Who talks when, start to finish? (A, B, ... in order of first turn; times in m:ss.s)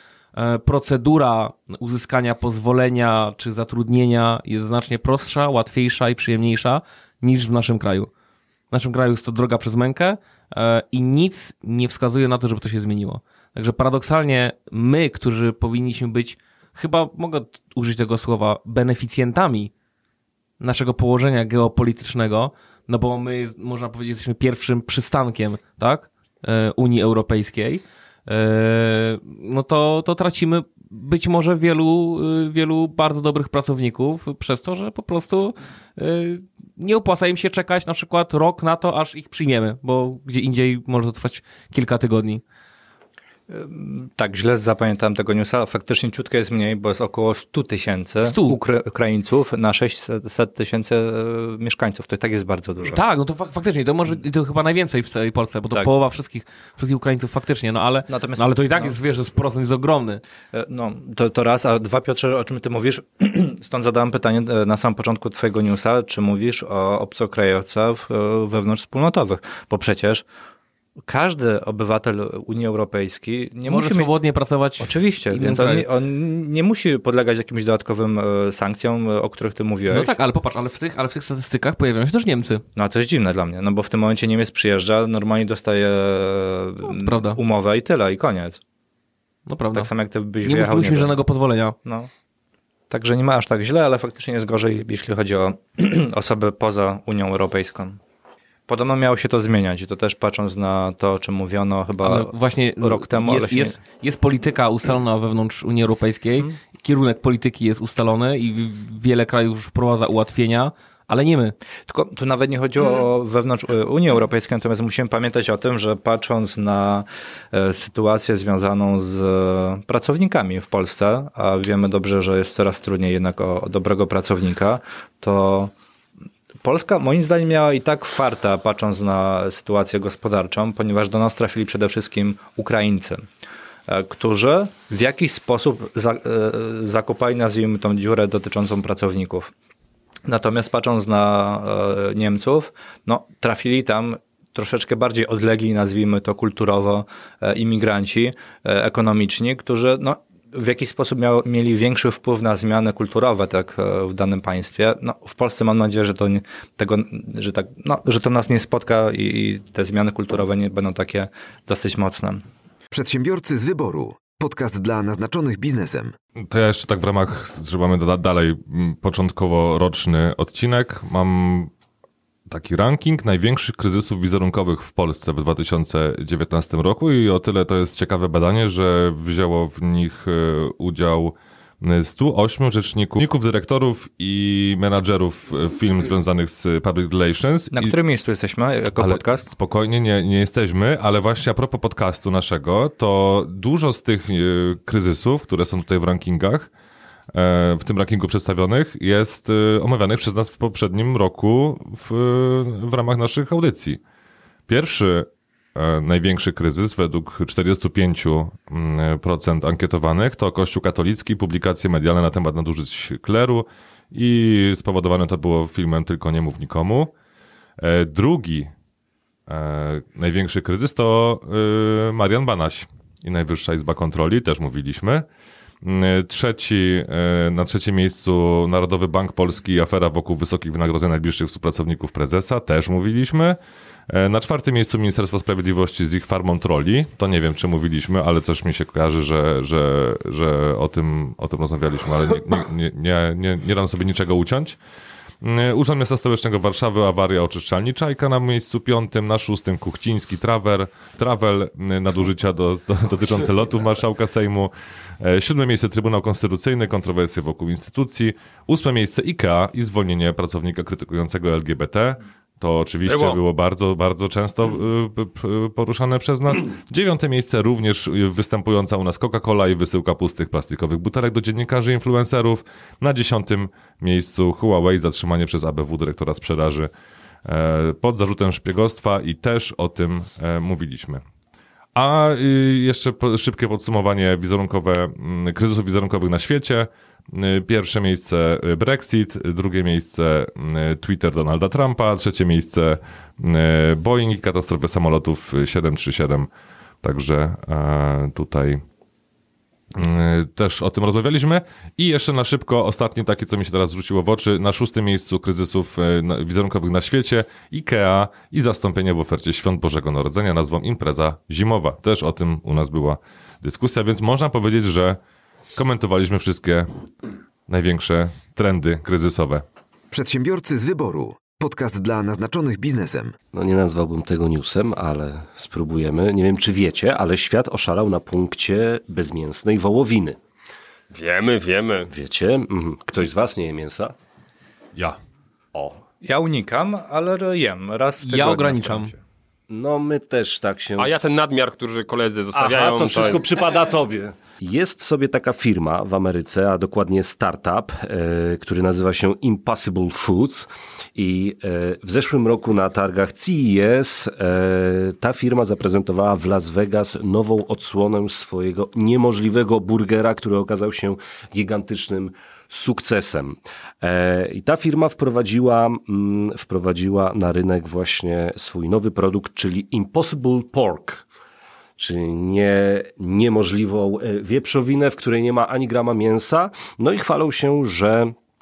0:00.3-0:08.1 A
0:08.7-0:19.7 A
0:20.6-0:42.4 A
0:43.5-0:53.0 B
0:48.2-0:48.6 A
0:52.8-1:00.2 A
0:58.1-0:59.0 B
1:00.5-1:10.2 B
1:11.0-1:14.1 B
1:13.6-1:15.9 A
1:14.8-1:20.1 B
1:19.9-1:22.6 A
1:22.8-1:28.6 B
1:26.9-1:27.4 A
1:29.5-1:29.9 A
1:29.7-1:31.2 B
1:30.4-1:31.8 A
1:31.8-1:32.1 B
1:32.9-1:38.0 B
1:38.7-1:43.8 B
1:42.0-1:51.5 A
1:51.9-2:05.7 B
2:06.6-2:13.2 B
2:13.9-2:19.5 B
2:20.2-2:42.4 B
2:42.9-2:46.1 C
2:46.4-2:51.7 D
2:52.5-3:08.0 D
3:07.7-3:09.5 B
3:09.0-3:16.7 D
3:17.3-3:24.0 D
3:24.7-3:37.1 D
3:37.8-3:38.7 D
3:39.5-3:45.2 D
3:45.8-3:53.6 D
3:54.1-4:04.8 D
4:05.4-4:36.9 D
4:23.0-4:23.4 E
4:37.4-4:41.2 D
4:41.9-4:56.5 D
4:57.0-4:58.8 D
4:59.9-5:15.2 D
5:15.7-5:16.9 D
5:17.7-5:19.6 D
5:20.1-5:23.3 C
5:23.5-5:30.4 F
5:31.1-5:32.1 E
5:32.1-5:34.1 F
5:35.7-5:36.0 F
5:36.2-5:39.2 B
5:38.2-5:39.1 A
5:39.7-5:41.3 F
5:41.0-5:43.4 E
5:42.5-6:11.2 F
6:12.0-6:18.3 F